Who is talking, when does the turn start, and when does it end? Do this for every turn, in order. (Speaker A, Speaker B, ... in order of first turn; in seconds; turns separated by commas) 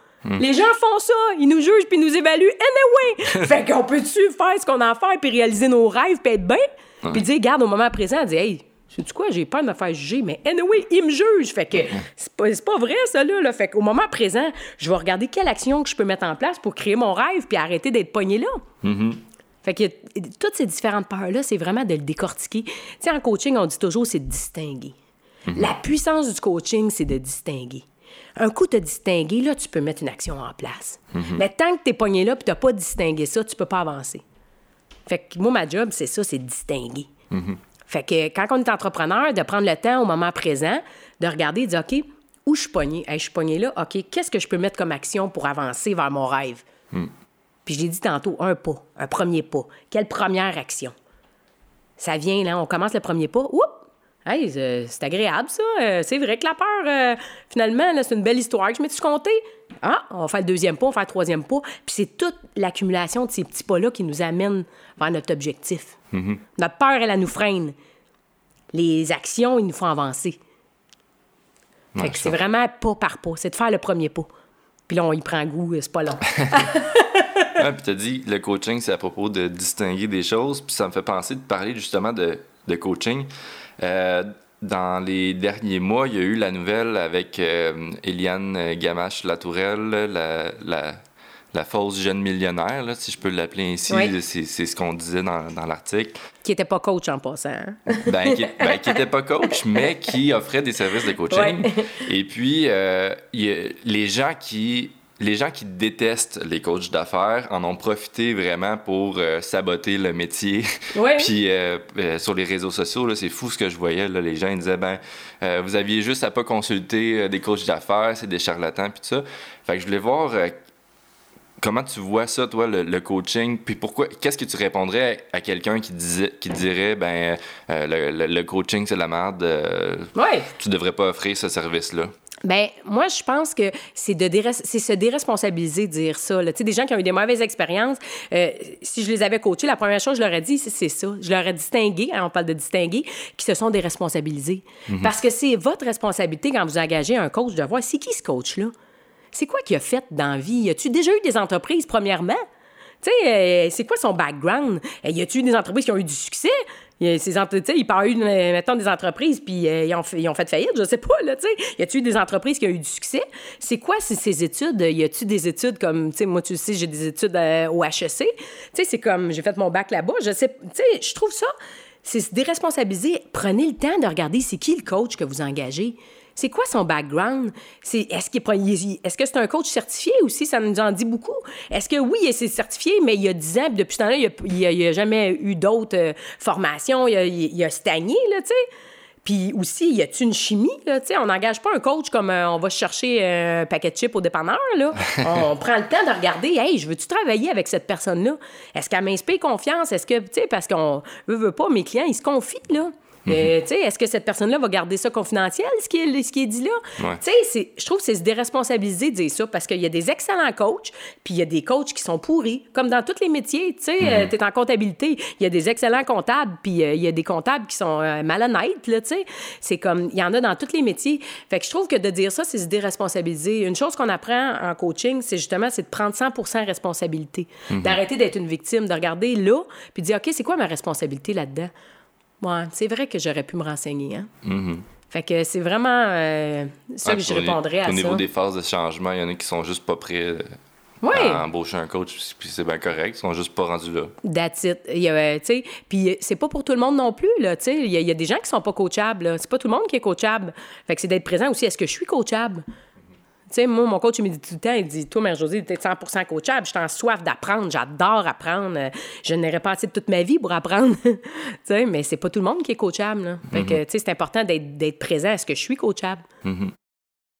Speaker A: 0.4-18.6, Speaker B: 18.8-19.2, Speaker A: 19.6-24.9, Speaker B: 25.5-25.7, Speaker A: 25.5-27.8, Speaker A: 28.4-34.2, Speaker B: 31.1-31.4, Speaker A: 35.1-37.1, Speaker B: 37.3-37.6, Speaker A: 37.9-46.6, Speaker A: 47.6-50.9, Speaker A: 52.0-66.0, Speaker B: 66.1-66.4, Speaker A: 66.5-67.7, Speaker A: 68.7-70.4, Speaker B: 71.9-72.3, Speaker A: 72.0-74.3, Speaker A: 74.9-77.5, Speaker B: 77.5-91.0, Speaker B: 91.5-96.2, Speaker A: 96.4-99.0, Speaker B: 98.0-120.5, Speaker A: 101.3-101.9, Speaker A: 110.9-111.3, Speaker B: 121.6-132.1, Speaker A: 130.1-130.5, Speaker A: 132.4-148.7, Speaker B: 144.9-145.1, Speaker A: 149.3-152.4, Speaker A: 153.0-171.5, Speaker A: 172.0-188.6, Speaker A: 189.2-231.7, Speaker B: 203.2-203.5, Speaker B: 214.0-214.3, Speaker B: 227.7-228.0, Speaker A: 232.4-234.3, Speaker B: 234.4-234.8, Speaker A: 235.1-238.2, Speaker B: 237.1-240.5, Speaker A: 241.0-241.4, Speaker B: 241.1-244.1, Speaker A: 244.2-252.6, Speaker A: 253.5-266.2, Speaker B: 263.5-263.8, Speaker B: 266.4-266.7